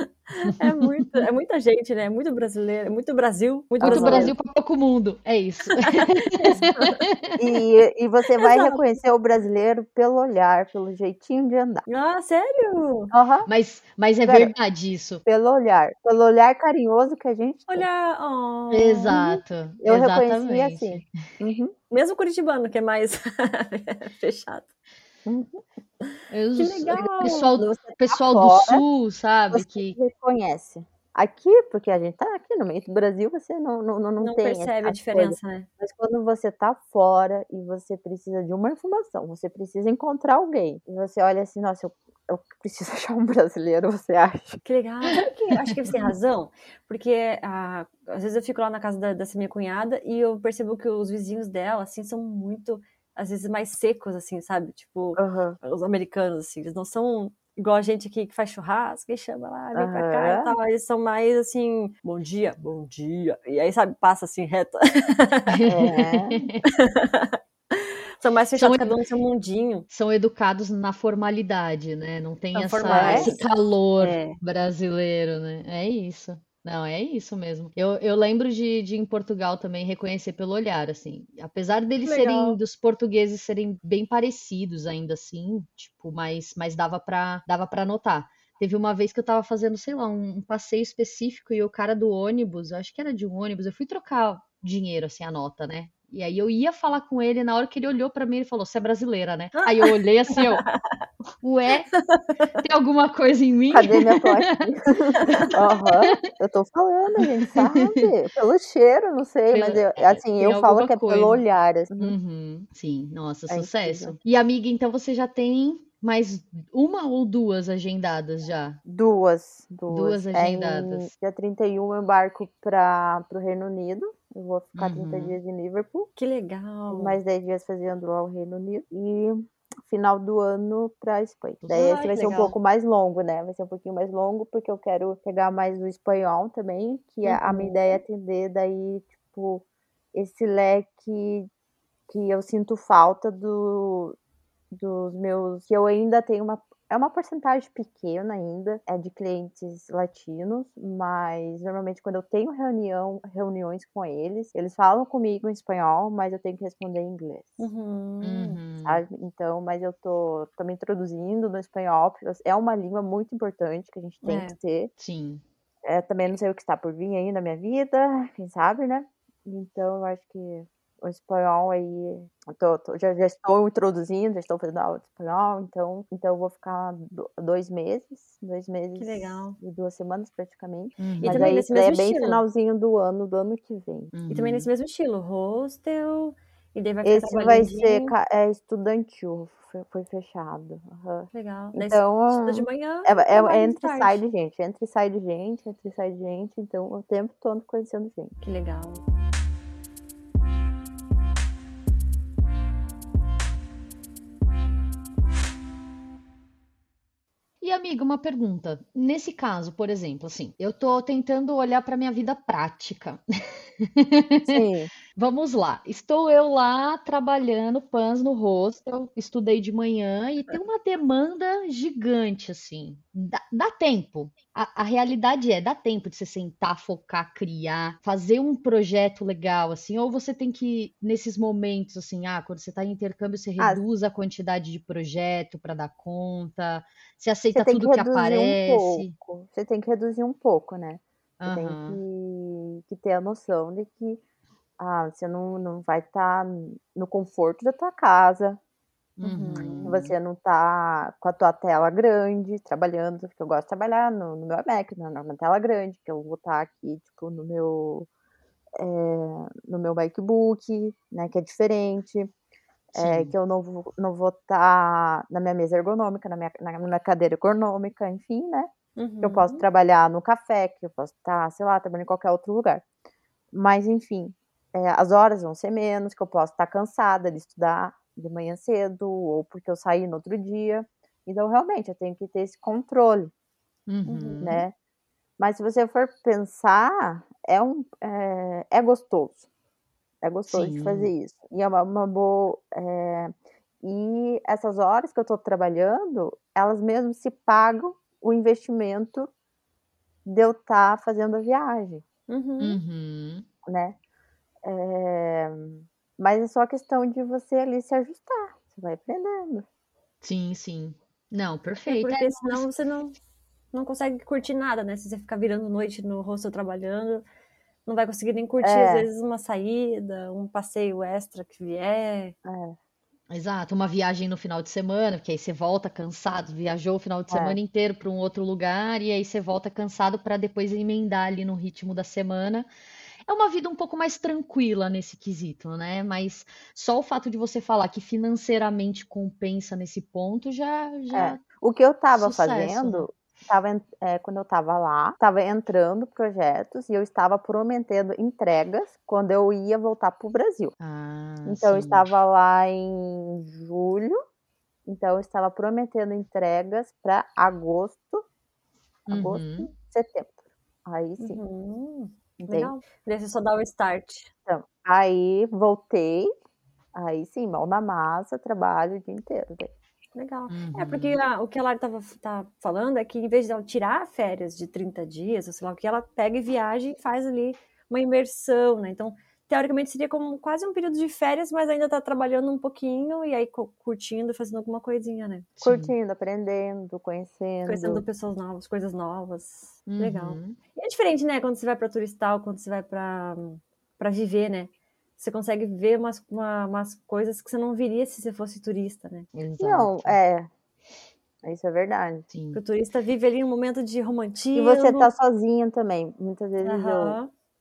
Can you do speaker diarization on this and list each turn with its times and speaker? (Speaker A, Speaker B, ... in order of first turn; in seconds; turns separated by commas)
Speaker A: 0.4-4.3, Speaker B: 0.5-1.2, Speaker C: 3.8-4.3, Speaker B: 3.8-7.4, Speaker A: 5.8-7.0, Speaker C: 7.4-11.8, Speaker A: 8.4-8.8, Speaker A: 11.9-13.1, Speaker C: 13.1-13.5, Speaker B: 13.5-15.2, Speaker C: 14.2-14.5, Speaker C: 15.2-17.9, Speaker A: 17.7-19.3, Speaker B: 18.7-21.1, Speaker C: 19.8-21.7, Speaker A: 21.9-24.7, Speaker C: 25.3-25.6, Speaker A: 26.0-27.5, Speaker B: 26.3-30.0, Speaker C: 27.6-28.8, Speaker C: 29.5-44.6, Speaker A: 34.2-35.7, Speaker A: 44.6-65.7, Speaker C: 55.2-55.6, Speaker C: 59.7-60.5, Speaker B: 65.5-66.6, Speaker C: 65.7-66.4, Speaker A: 66.8-69.9, Speaker B: 68.5-69.0, Speaker B: 69.9-100.7, Speaker A: 72.5-73.5, Speaker C: 72.9-73.3, Speaker A: 74.0-74.4, Speaker A: 82.0-82.6, Speaker A: 99.6-100.8, Speaker B: 101.4-101.9, Speaker A: 102.0-102.3, Speaker B: 102.6-104.5, Speaker C: 103.7-112.2, Speaker B: 107.3-108.1, Speaker B: 109.5-111.4, Speaker B: 112.0-118.8, Speaker C: 113.5-114.2, Speaker C: 118.8-126.1, Speaker B: 119.9-121.1, Speaker B: 124.8-125.4, Speaker A: 126.2-127.2, Speaker C: 126.9-141.5, Speaker A: 131.7-132.6, Speaker A: 137.2-138.0, Speaker C: 142.1-144.2, Speaker C: 144.7-157.6, Speaker A: 157.6-158.6, Speaker B: 158.2-159.0, Speaker C: 158.8-164.9, Speaker A: 164.2-164.6, Speaker B: 165.0-165.4, Speaker C: 165.8-184.1, Speaker A: 179.0-179.6, Speaker B: 181.0-181.4, Speaker A: 181.2-182.4, Speaker B: 184.1-184.7, Speaker A: 184.3-188.1, Speaker C: 187.0-198.4, Speaker A: 191.3-194.2, Speaker A: 198.4-199.0, Speaker B: 207.6-213.2, Speaker B: 213.8-214.6, Speaker C: 214.5-214.9, Speaker B: 215.2-239.2, Speaker C: 237.5-244.2, Speaker B: 241.4-242.0, Speaker C: 244.8-248.6, Speaker B: 249.2-250.1, Speaker A: 249.2-250.0, Speaker C: 249.8-258.1, Speaker C: 258.8-262.3, Speaker C: 262.9-268.7, Speaker B: 263.0-263.3, Speaker A: 269.0-269.6, Speaker C: 269.2-272.9, Speaker C: 273.5-283.3, Speaker B: 283.9-284.6, Speaker A: 284.1-284.6, Speaker C: 284.4-284.8, Speaker C: 285.4-289.5, Speaker C: 290.2-299.3, Speaker B: 290.5-291.1, Speaker C: 300.2-302.0, Speaker A: 302.3-302.8, Speaker B: 302.6-303.5, Speaker C: 303.6-304.0, Speaker C: 304.6-309.7, Speaker B: 310.2-312.6, Speaker A: 311.9-313.1, Speaker A: 313.7-317.2, Speaker A: 317.9-322.4, Speaker C: 318.6-319.1, Speaker C: 322.4-322.8, Speaker B: 323.3-332.7, Speaker C: 327.3-327.6, Speaker B: 333.3-341.4, Speaker C: 341.1-350.8, Speaker B: 342.1-343.1, Speaker B: 350.8-352.1, Speaker C: 351.4-354.2, Speaker C: 354.9-358.2, Speaker B: 359.1-359.7, Speaker C: 359.1-361.4, Speaker A: 361.2-364.3, Speaker C: 362.4-362.7, Speaker C: 364.5-366.3, Speaker C: 366.9-369.7, Speaker A: 370.1-385.5, Speaker B: 370.5-371.2, Speaker B: 385.6-385.9, Speaker C: 385.6-388.0, Speaker A: 387.7-399.3, Speaker B: 389.9-390.6, Speaker B: 399.3-400.2, Speaker C: 399.6-400.5, Speaker C: 401.4-402.3, Speaker B: 402.3-402.6, Speaker A: 402.5-405.1, Speaker C: 404.6-407.2, Speaker A: 406.6-407.3